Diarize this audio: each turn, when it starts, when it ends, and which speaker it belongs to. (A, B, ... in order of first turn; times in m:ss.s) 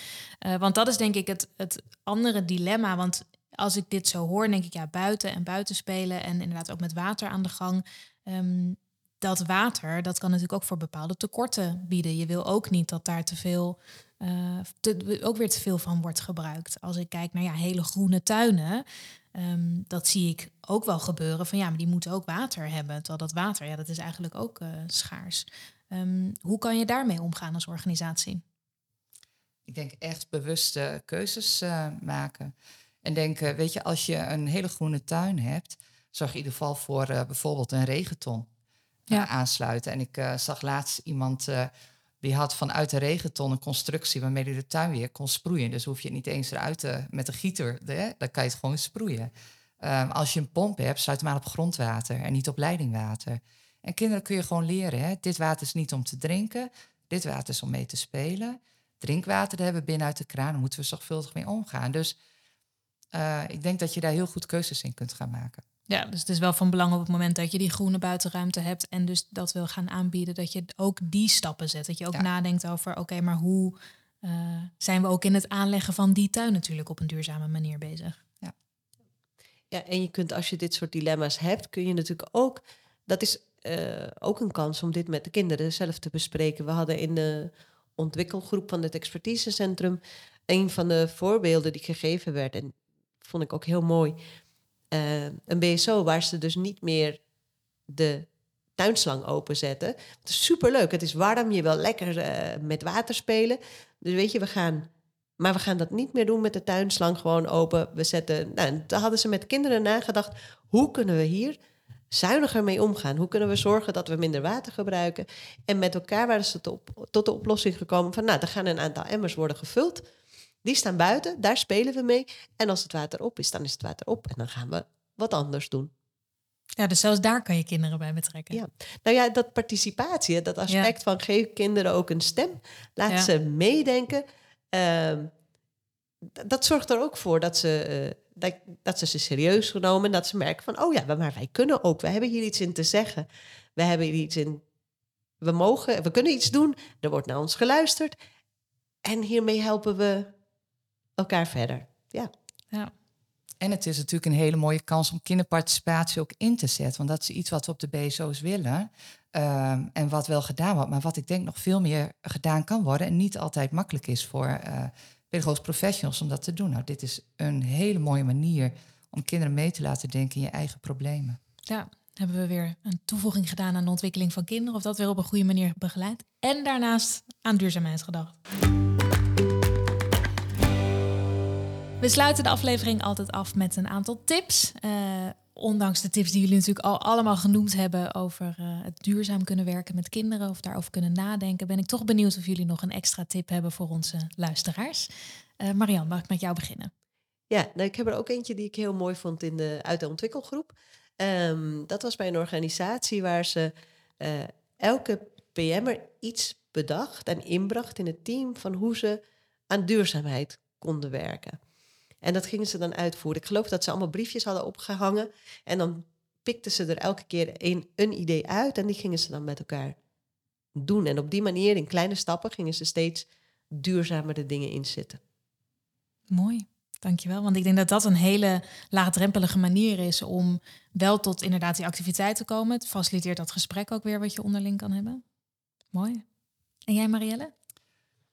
0:00.4-0:28.4 A
0:29.7-0:38.5 B
0:39.1-0:41.7 B
0:42.2-1:02.2 B
1:03.1-1:05.6 B
1:05.9-1:18.2 A
1:19.7-1:34.2 C
1:34.9-1:37.2 C
1:37.9-1:44.9 C
1:45.4-1:51.6 C
1:52.1-2:00.0 C
2:00.6-2:05.9 C
2:06.8-2:08.6 A
2:08.5-2:15.3 C
2:16.4-2:24.6 C
2:25.4-2:28.2 C
2:29.0-2:30.3 C
2:31.2-2:32.3 C
2:33.6-2:51.4 B
2:51.7-2:58.4 A
3:02.0-3:16.9 A
3:17.5-3:31.6 C
3:32.2-3:40.0 C
3:40.8-3:45.2 C
3:46.3-3:55.2 A
3:55.9-3:56.2 A
3:56.9-3:57.5 A